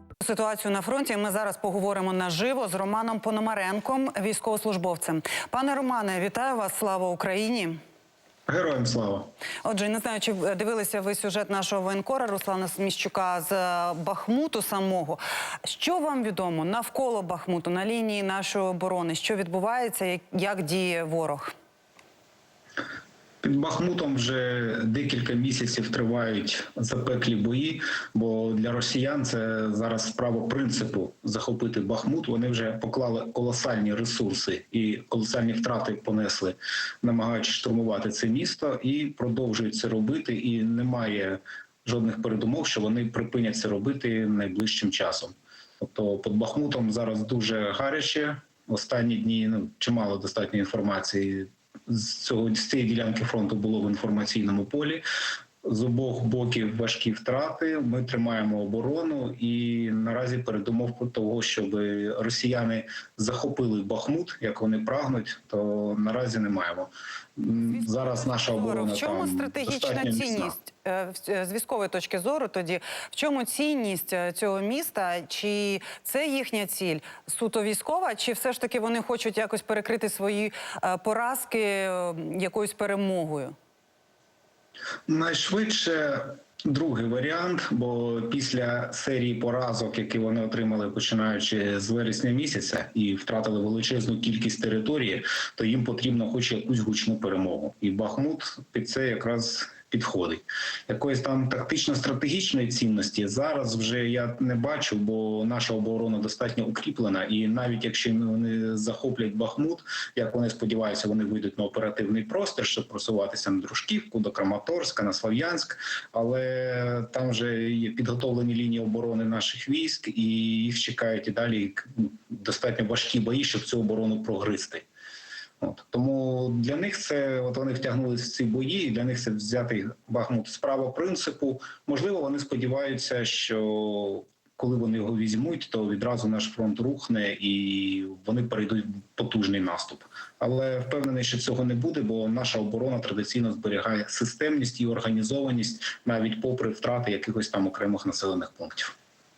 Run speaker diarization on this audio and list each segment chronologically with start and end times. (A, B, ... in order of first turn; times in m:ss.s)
0:00.2-0:07.8 A
0:08.5-0:09.3 B
0:09.6-0:21.5 A
0:23.4-0:55.0 B
0:55.6-1:10.5 B
1:07.6-1:23.5 A
1:25.1-2:04.8 B
2:05.6-2:28.9 B